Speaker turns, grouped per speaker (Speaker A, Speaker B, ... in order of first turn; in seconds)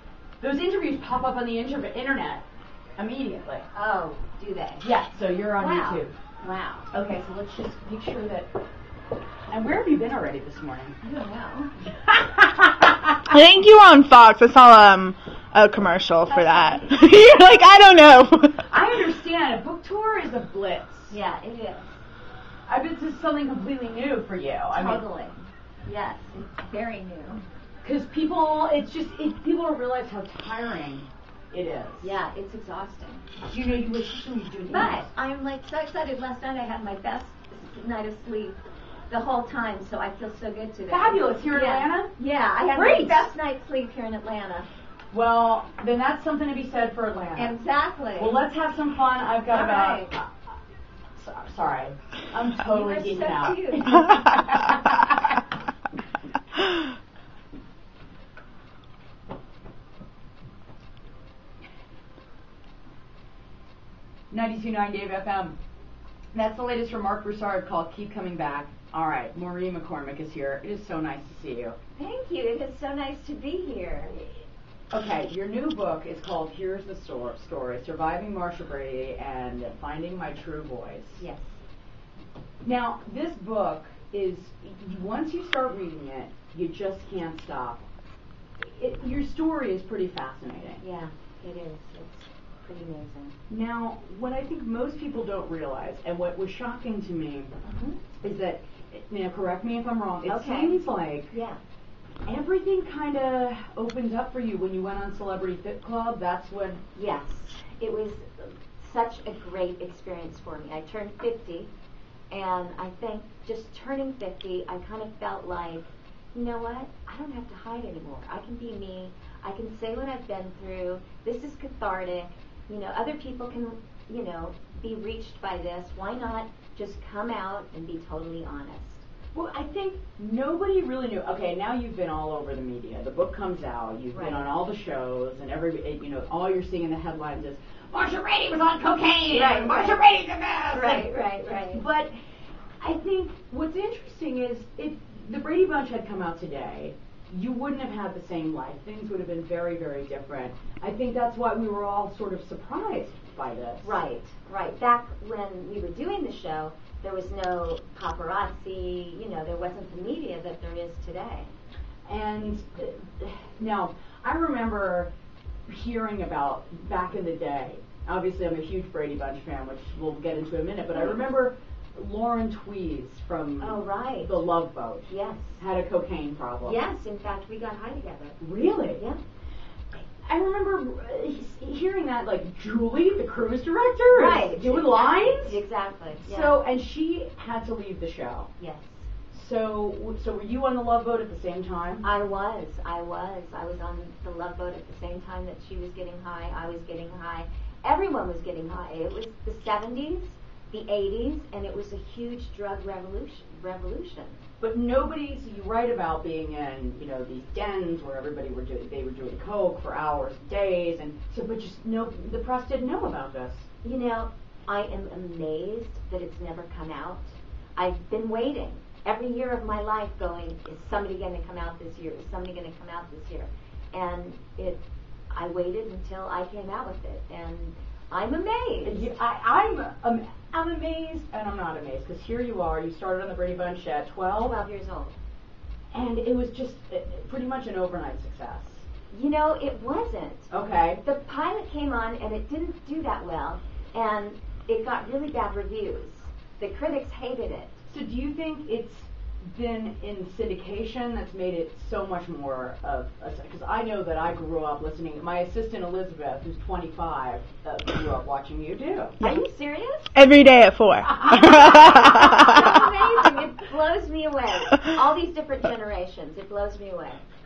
Speaker A: 0.4-2.4, 3.0-3.7, 4.8-6.1, 6.9-8.6, 9.5-10.9, 12.0-13.2, 18.6-21.2, 22.7-25.0, 27.8-32.2, 33.4-35.1, 40.9-42.1, 42.7-43.3, 45.1-47.5, 48.2-50.3, 51.1-54.8, 64.3-65.5, 66.3-71.8, 74.9-81.2, 82.6-87.8, 88.6-90.8, 93.5-97.5, 98.2-101.4, 102.2-106.8, 129.3-142.1, 142.8-154.0, 162.1-165.1, 165.7-176.8, 178.4-179.0, 180.2-185.6, 186.2-188.5, 189.3-192.0, 204.6-213.7, 228.8-234.6, 235.9-238.9, 240.5-241.0, 247.9-259.2, 261.2-261.5
Speaker B: 3.7-4.9, 5.5-6.9, 11.0-11.7, 16.3-17.0, 21.1-22.0, 24.7-27.4, 32.0-33.2, 34.7-44.7, 47.4-48.4, 49.5-50.1, 52.6-54.4, 72.0-74.2, 81.2-81.6, 90.8-93.3, 97.6-98.0, 100.2-101.6, 106.9-111.7, 112.3-129.1, 134.1-134.5, 139.3-140.0, 140.7-141.8, 153.8-161.5, 170.9-171.2, 173.6-174.5, 175.1-175.6, 176.6-178.4, 178.9-179.2, 184.1-186.6, 188.6-189.1, 192.0-204.4, 213.8-229.2, 234.4-235.2, 239.1-240.5, 241.0-247.8, 259.2-260.2, 261.2-267.2
Speaker C: 13.3-18.6, 260.1-262.8